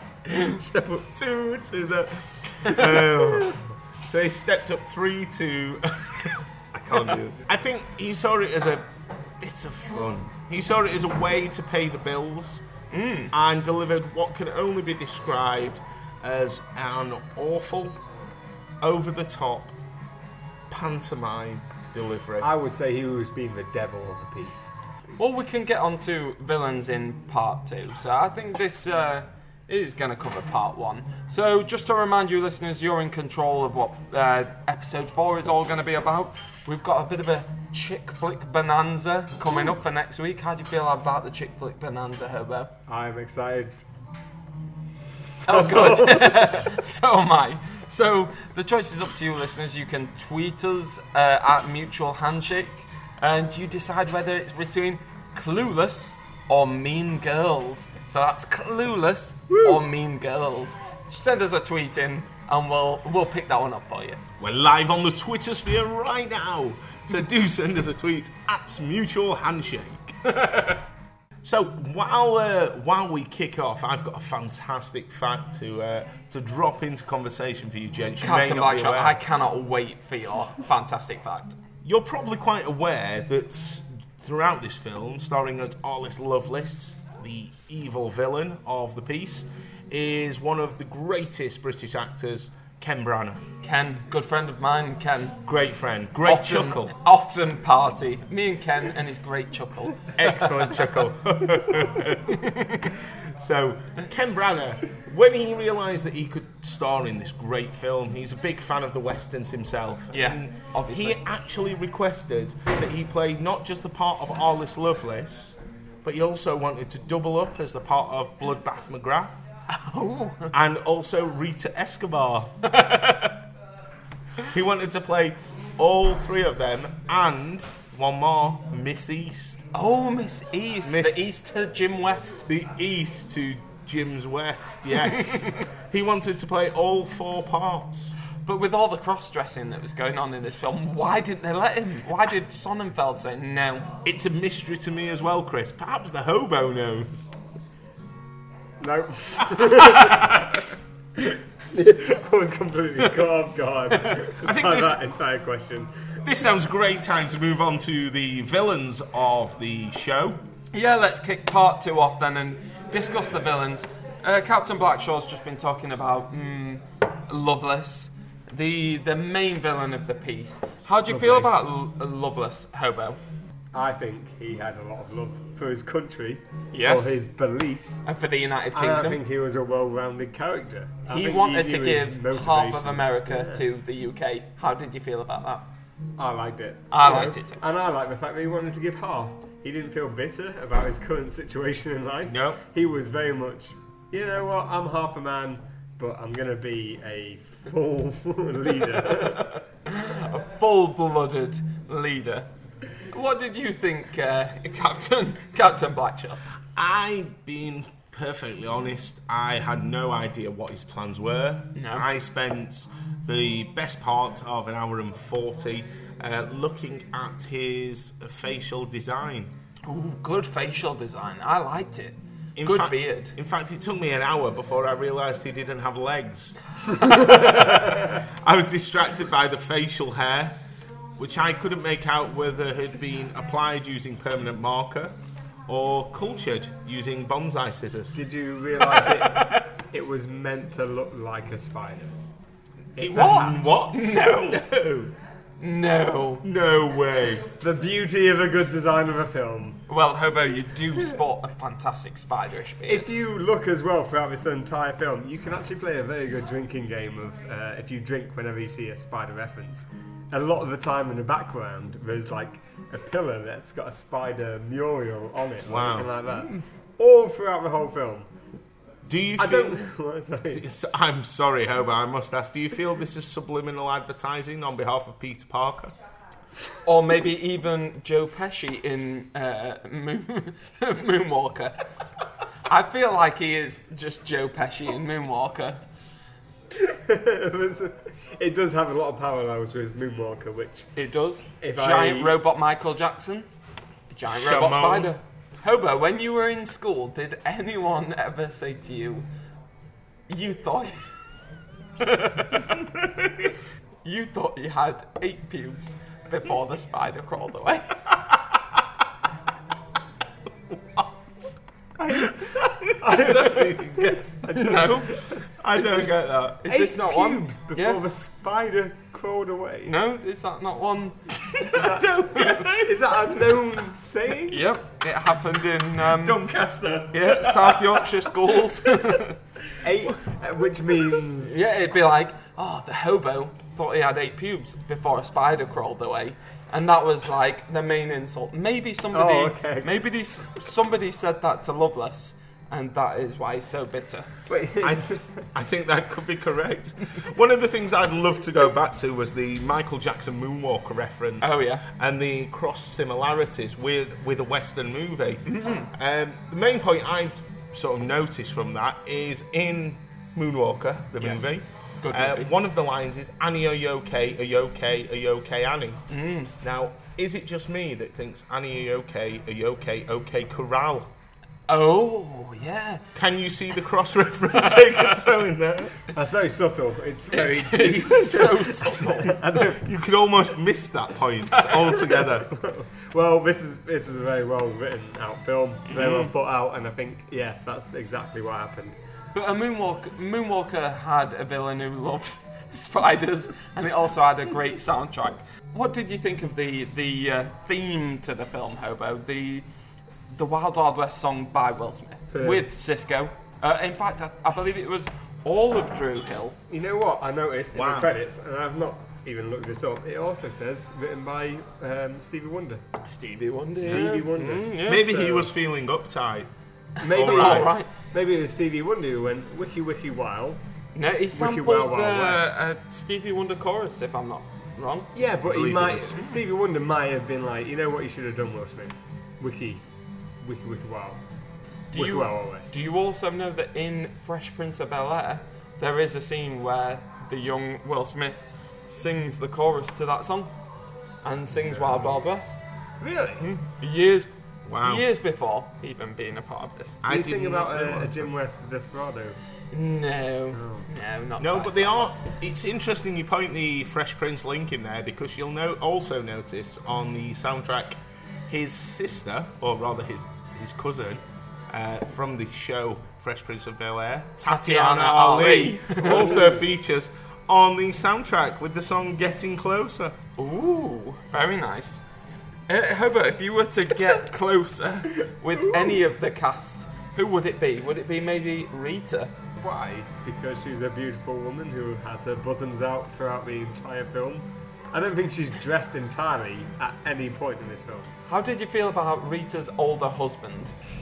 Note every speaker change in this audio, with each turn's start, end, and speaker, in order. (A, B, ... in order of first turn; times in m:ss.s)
0:00.3-0:08.9 A
0:03.0-0:03.5 B
0:09.4-0:12.6 A
0:12.9-0:13.3 C
0:13.3-0:18.0 A
0:18.8-0:19.7 A
0:20.7-0:22.5 A
0:22.4-0:24.7 B
0:25.2-0:42.7 C
0:42.9-0:43.8 B
0:45.4-0:46.5 B
0:45.4-1:04.2 C
1:04.4-1:10.2 A
1:10.3-1:10.8 C
1:11.4-1:19.2 A
1:18.2-1:21.6 C
1:21.8-1:33.4 A
1:33.6-1:35.4 C
1:35.4-1:36.9 A
1:36.2-1:40.9 C
1:40.2-1:59.5 A
1:42.3-1:42.9 C
1:50.1-1:51.2 C
1:59.7-2:00.5 C
2:00.5-2:02.5 A
2:02.6-2:03.4 C
2:04.5-2:09.7 A
2:09.7-2:12.4 C
2:10.8-2:11.3 A
2:12.5-2:18.2 A
2:18.4-2:23.9 C
2:24.0-2:27.3 A
2:28.8-2:30.5 B
2:30.1-2:30.4 C
2:31.7-2:35.9 B
2:34.4-2:35.0 A
2:36.2-2:40.4 A
2:40.7-2:53.2 C
2:51.1-2:51.6 B
2:53.7-2:58.0 B
2:56.7-2:57.2 C
2:58.0-2:59.2 C
2:58.7-3:03.6 B
3:01.1-3:05.7 C
3:06.2-3:19.6 B
3:06.9-3:07.6 C
3:12.2-3:12.6 A
3:19.2-3:22.5 C
3:23.1-3:26.4 C
3:26.8-3:39.5 A
3:31.8-3:32.0 C
3:39.8-3:43.3 C
3:42.6-3:50.6 A
3:47.5-3:48.0 B
3:51.2-3:55.2 A
3:55.7-3:58.2 A
3:58.1-4:02.1 B
3:58.8-3:59.7 C
4:03.0-4:03.8 B
4:03.0-4:05.1 A
4:03.1-4:04.6 C
4:05.6-4:06.4 C
4:06.4-4:07.4 A
4:07.6-4:09.8 B
4:09.9-4:13.1 C
4:12.8-4:28.3 B
4:25.7-4:26.1 A
4:29.0-4:29.9 A
4:29.4-4:30.6 B
4:30.5-4:35.9 A
4:36.8-4:41.8 C
4:42.7-4:45.8 C
4:46.7-4:50.9 B
4:51.0-4:53.5 C
4:51.6-4:52.4 B
4:54.1-4:59.2 C
4:54.3-4:55.1 A
5:00.3-5:01.0 C
5:02.0-5:02.8 C
5:02.7-5:03.5 A
5:04.0-5:08.1 C
5:10.7-5:11.5 A
5:12.0-5:15.2 B
5:12.1-5:14.3 A
5:14.5-5:18.0 C
5:15.4-5:16.6 A
5:16.6-5:19.9 B
5:19.8-5:21.8 C
5:21.6-5:23.4 A
5:21.7-5:24.6 B
5:24.5-5:26.4 C
5:26.2-5:29.2 A
5:27.1-5:29.4 C
5:29.8-5:31.6 B
5:31.4-5:44.3 C
5:39.1-5:40.0 B
5:44.5-5:45.3 B
5:44.8-6:06.0 A
5:51.4-5:51.8 C
5:55.4-5:55.9 C
6:01.2-6:02.5 C
6:06.1-6:06.5 C
6:06.6-6:11.1 A
6:11.7-6:13.0 C
6:13.1-6:16.0 A
6:16.1-6:19.9 B
6:17.3-6:19.4 C
6:19.5-6:22.5 A
6:21.5-6:21.8 C
6:21.7-6:29.0 B
6:25.9-6:26.3 C
6:29.3-6:39.6 C
6:40.3-6:46.6 C
6:42.3-6:42.6 B
6:46.7-6:52.8 B
6:47.7-6:48.1 A
6:53.0-6:55.1 C
6:53.8-6:55.5 B
6:53.8-6:54.1 A
6:54.8-6:56.5 A
6:57.0-6:57.9 C
6:57.0-7:00.6 B
6:57.0-6:57.8 A
7:00.9-7:05.1 C
7:01.3-7:02.6 B
7:05.1-7:09.8 B
7:05.4-7:06.2 A
7:10.4-7:11.2 B
7:11.9-7:12.8 B
7:11.9-7:20.5 C
7:21.2-7:22.6 C
7:21.6-7:22.2 B
7:23.0-7:23.5 B
7:23.4-7:27.0 C
7:24.6-7:25.1 A
7:27.0-7:28.3 A
7:27.0-7:29.4 B
7:29.7-7:32.1 C
7:30.5-7:30.9 B
7:31.4-7:38.0 A
7:38.5-7:50.2 A
7:44.4-7:46.5 C
7:46.0-7:46.6 B
7:50.4-7:52.0 C
7:52.7-7:59.3 C
7:59.6-8:08.1 B
8:08.3-8:10.7 C